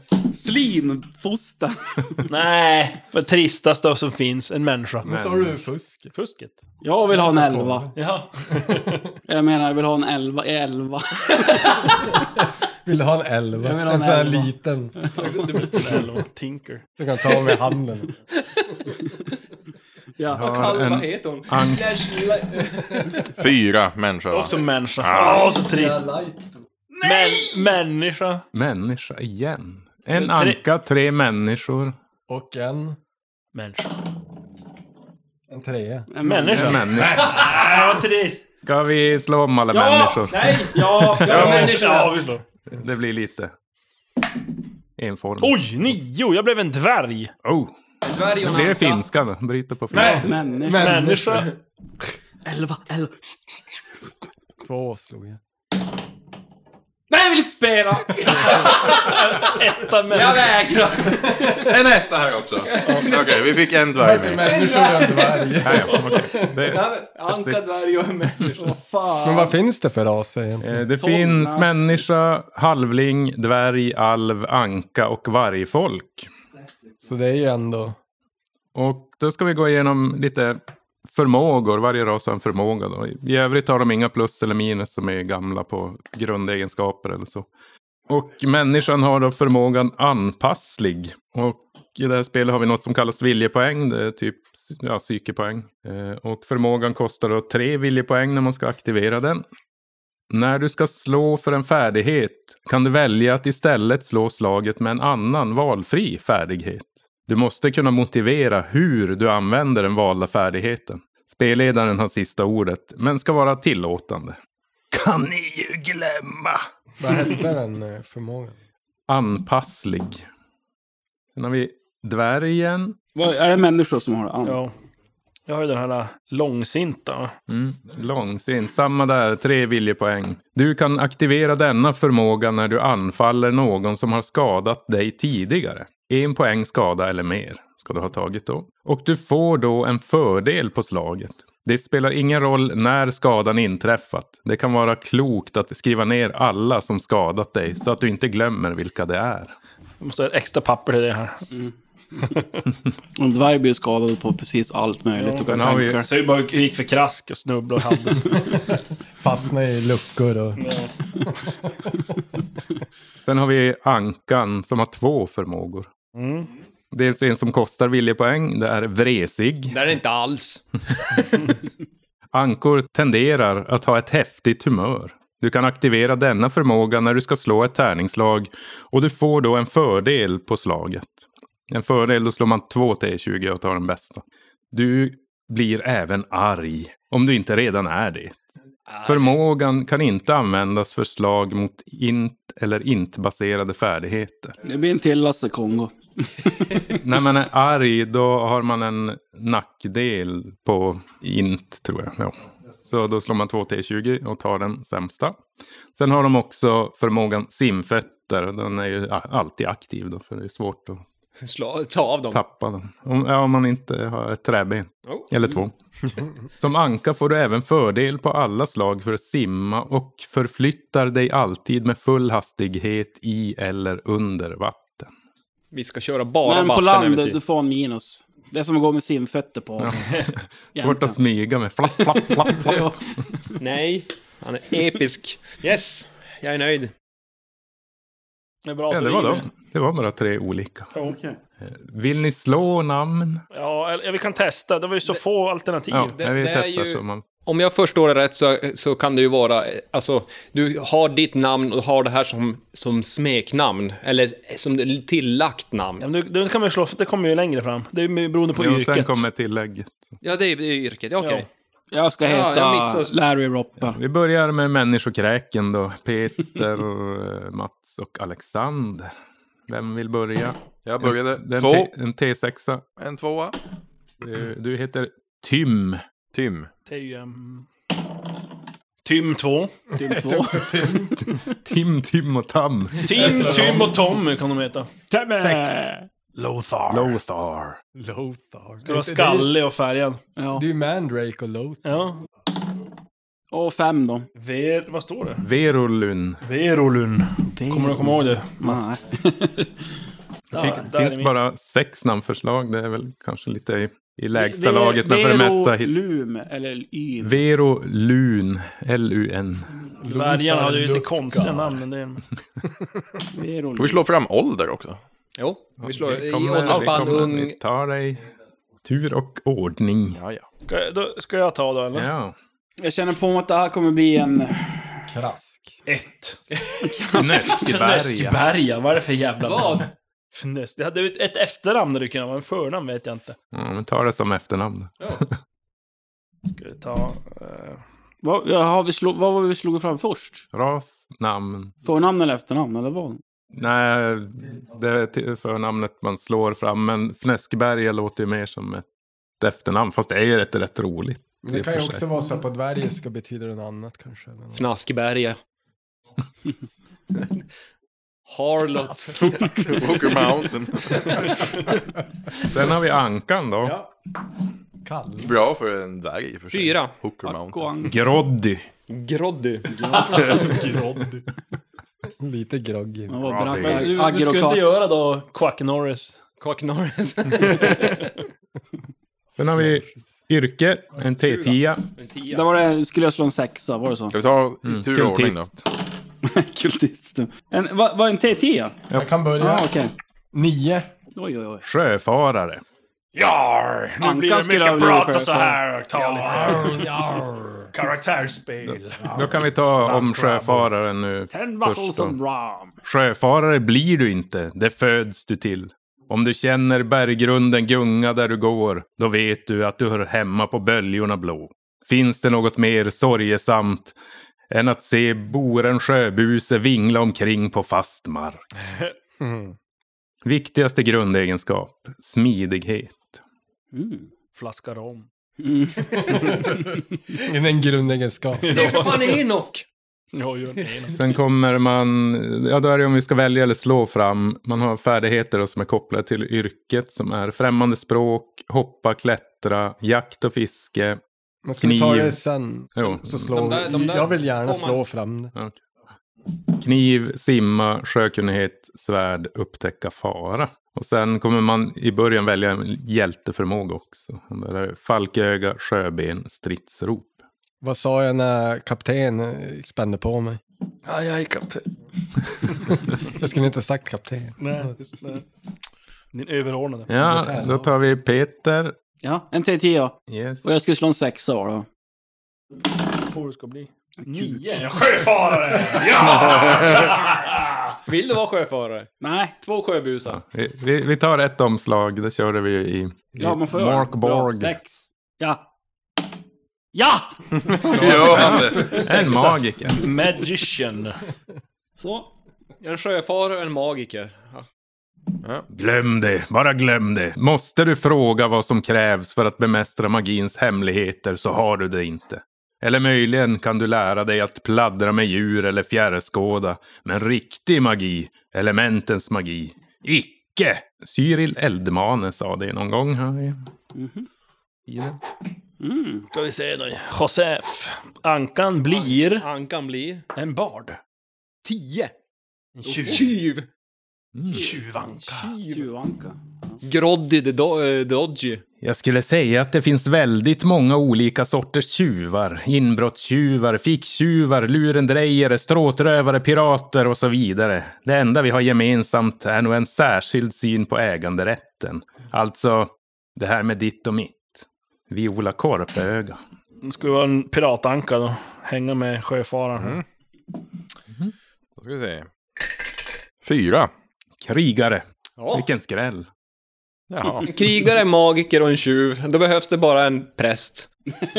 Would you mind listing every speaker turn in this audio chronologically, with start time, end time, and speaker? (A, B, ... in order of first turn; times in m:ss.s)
0:00.3-0:02.2 A
0:02.2-0:05.1 B
0:05.0-0:06.1 C
0:05.0-0:05.6 D
0:06.1-0:06.6 B
0:06.8-0:07.9 A
0:07.1-0:08.0 C
0:07.9-0:08.6 B
0:08.5-0:09.0 C
0:09.3-0:12.1 A
0:12.4-0:15.0 C
0:13.6-0:15.8 A
0:15.2-0:15.8 E
0:15.7-0:16.8 B
0:17.0-0:18.1 C
0:18.6-0:18.8 E
0:20.2-0:20.5 A
0:20.3-0:21.8 D
0:20.4-0:23.4 E
0:23.4-0:25.4 F
0:24.3-0:26.0 B
0:25.1-0:26.6 C
0:27.0-0:28.4 B
0:27.0-0:27.6 A
0:28.5-0:31.9 D
0:30.1-0:30.6 B
0:32.3-0:33.0 C
0:33.5-0:33.9 B
0:35.5-0:37.2 C
0:36.1-0:36.8 A
0:36.2-0:38.5 B
0:36.5-0:37.6 D
0:38.6-0:40.4 D
0:39.7-0:41.7 A
0:40.3-0:42.2 E
0:41.0-0:42.4 B
0:42.6-0:43.5 D
0:45.0-0:46.0 D
0:45.4-0:47.3 B
0:47.4-0:47.8 D
0:48.0-0:49.1 E
0:48.4-0:50.3 D
0:49.9-0:51.1 A
0:49.9-0:51.5 B
0:50.0-0:51.5 C
0:52.5-0:53.1 A
0:54.6-0:55.4 C
0:57.1-0:58.6 A
0:58.0-0:59.1 E
0:58.6-1:00.6 B
1:00.1-1:01.7 E
1:01.6-1:04.6 F
1:02.6-1:03.7 E
1:02.8-1:03.1 C
1:03.9-1:06.6 C
1:04.4-1:08.7 E
1:05.6-1:07.7 D
1:08.6-1:09.5 A
1:09.2-1:10.8 C
1:10.6-1:16.3 D
1:11.0-1:12.1 A
1:17.0-1:18.0 C
1:18.7-1:27.4 D
1:28.1-1:39.4 D
1:40.3-1:54.4 D
1:54.9-1:56.6 D
1:57.0-1:58.5 C
1:57.1-1:57.4 B
1:59.1-2:00.2 D
2:01.3-2:03.0 D
2:03.1-2:04.6 A
2:04.4-2:04.7 B
2:05.5-2:07.3 B
2:07.5-2:29.5 D
2:30.0-2:31.4 B
2:33.2-2:36.1 A
2:35.2-2:38.6 B
2:35.4-2:36.0 D
2:38.6-2:40.6 C
2:40.6-2:40.9 B
2:43.2-2:45.9 D
2:46.1-2:46.5 B
2:46.9-2:49.8 D
2:49.7-2:50.6 E
2:52.3-3:08.4 D
3:08.9-3:09.4 E
3:09.0-3:14.5 D
3:14.6-3:17.0 A
3:16.9-3:25.4 D
3:25.9-3:31.0 D
3:31.4-3:32.4 E
3:32.3-3:35.7 D
3:35.0-3:35.6 E
3:36.6-3:45.1 D
3:45.7-3:47.4 E
3:46.4-3:50.1 A
3:49.8-3:50.1 D
3:50.7-3:53.0 D
3:50.7-3:51.2 A
3:51.8-3:53.6 A
3:53.6-3:56.9 E
3:58.6-3:59.5 B
3:58.9-4:00.9 D
4:00.9-4:01.4 A
4:01.6-4:03.4 D
4:03.5-4:06.1 B
4:05.9-4:07.2 D
4:06.2-4:16.0 E
4:16.0-4:19.2 B
4:18.5-4:20.2 D
4:20.2-4:21.5 E
4:21.2-4:21.4 B
4:21.9-4:24.0 A
4:22.2-4:23.2 E
4:23.8-4:29.1 D
4:29.7-4:32.8 D
4:30.8-4:31.9 F
4:33.0-4:33.6 F
4:34.2-4:36.0 D
4:36.3-4:36.7 F
4:36.9-4:37.7 B
4:39.0-4:39.8 B
4:39.9-4:40.7 A
4:40.0-4:41.3 C
4:41.4-4:43.8 D
4:43.0-4:44.0 C
4:43.0-4:44.9 B
4:45.1-4:46.1 A
4:45.4-4:45.8 C
4:46.3-4:47.2 B
4:46.9-4:47.8 D
4:47.9-4:49.5 C
4:48.8-4:50.2 B
4:50.4-4:50.6 A
4:50.5-4:52.0 C
4:51.8-4:52.2 B
4:53.5-4:54.3 A
4:54.4-4:55.4 B
4:55.4-4:56.4 D
4:56.4-4:58.8 B
4:57.6-4:59.8 A
5:00.5-5:05.9 D
5:00.5-5:01.3 B
5:04.3-5:07.4 A
5:07.2-5:09.7 D
5:10.0-5:11.8 C
5:10.0-5:12.2 B
5:13.4-5:14.0 A
5:13.8-5:15.0 F
5:15.4-5:17.6 E
5:15.8-5:18.2 D
5:18.8-5:20.2 D
5:20.1-5:20.5 F
5:20.7-5:22.1 B
5:21.9-5:22.3 D
5:22.8-5:25.0 A
5:25.1-5:25.8 C
5:25.9-5:26.4 B
5:27.0-5:33.4 B
5:27.1-5:28.4 D
5:29.4-5:29.9 E
5:33.5-5:35.4 D
5:36.5-5:37.8 B
5:38.2-5:40.4 A
5:40.5-5:41.7 D
5:41.8-5:43.2 A
5:43.5-5:48.8 D
5:49.4-5:52.0 D
5:51.4-5:54.6 C
5:54.5-5:55.4 E
5:57.1-5:57.4 E
5:58.3-6:00.1 E
5:59.4-6:01.3 F
6:02.4-6:03.8 D
6:04.8-6:05.3 C
6:05.2-6:08.0 F
6:06.5-6:07.0 E
6:07.2-6:08.0 A
6:07.8-6:08.6 D
6:08.9-6:10.2 E
6:09.7-6:10.5 A
6:10.0-6:11.2 C
6:12.0-6:13.2 C
6:13.1-6:14.8 A
6:13.2-6:14.0 D
6:13.6-6:16.2 B
6:16.4-6:18.1 E
6:19.4-6:21.9 D
6:21.1-6:22.5 E
6:22.3-6:24.1 A
6:24.1-6:25.5 F
6:24.6-6:25.5 D
6:26.2-6:28.8 A
6:28.9-6:29.7 C
6:29.4-6:29.9 A
6:30.3-6:30.9 C
6:31.1-6:31.6 A
6:31.6-6:32.6 D
6:33.1-6:37.2 B
6:34.0-6:35.6 A
6:36.0-6:36.8 E
6:36.4-6:37.6 C
6:37.7-6:40.7 B
6:38.6-6:42.2 D
6:41.3-6:42.7 A
6:42.8-6:53.9 D
6:54.5-6:58.4 D
6:59.2-6:59.6 C
7:00.2-7:03.2 D
7:03.7-7:04.1 A
7:04.3-7:05.1 B
7:05.4-7:06.8 A
7:05.9-7:08.6 C
7:08.4-7:09.2 B
7:08.5-7:09.6 E
7:10.1-7:11.0 B
7:10.9-7:21.0 D
7:21.4-7:25.3 C
7:21.6-7:22.2 D
7:22.7-7:23.6 D
7:23.3-7:24.8 E
7:25.3-7:25.6 D
7:26.5-7:37.1 D
7:37.6-7:40.4 C
7:40.8-7:41.7 B
7:42.4-7:42.9 B
7:43.0-7:44.7 C
7:44.4-7:45.2 B
7:46.1-7:46.9 B
7:46.9-7:48.7 D
7:47.0-7:47.7 C
7:49.0-7:51.7 A
7:50.1-7:50.4 D
7:53.0-7:57.7 B
7:54.0-7:54.6 A
7:56.3-7:56.7 F
7:57.8-8:00.2 E
7:59.0-7:59.3 A
8:00.0-8:04.6 D
8:03.2-8:05.4 A
8:06.7-8:07.2 A
8:07.5-8:09.0 F
8:07.7-8:09.9 D
8:08.2-8:09.0 A
8:08.9-8:11.0 B
8:11.8-8:12.1 A
8:12.6-8:14.4 E
8:15.5-8:33.4 D
8:33.7-8:34.1 A
8:34.7-8:35.0 D
8:35.6-8:36.1 A
8:36.1-8:39.2 B
8:38.7-8:40.0 E
8:40.1-8:40.8 B
8:41.4-8:41.9 E
8:42.6-8:43.2 B
8:42.6-8:43.5 E
8:44.2-8:44.5 D
8:44.3-8:45.3 B
8:44.9-8:45.7 E
8:45.4-8:46.6 A
8:46.6-8:48.4 E
8:48.6-9:04.4 D
9:04.9-9:06.2 D
9:06.6-9:09.8 B
9:09.6-9:09.8 F
9:11.6-9:12.1 F
9:13.2-9:13.7 F
9:14.2-9:16.1 D
9:15.2-9:15.5 E
9:16.9-9:17.3 F
9:17.2-9:20.7 E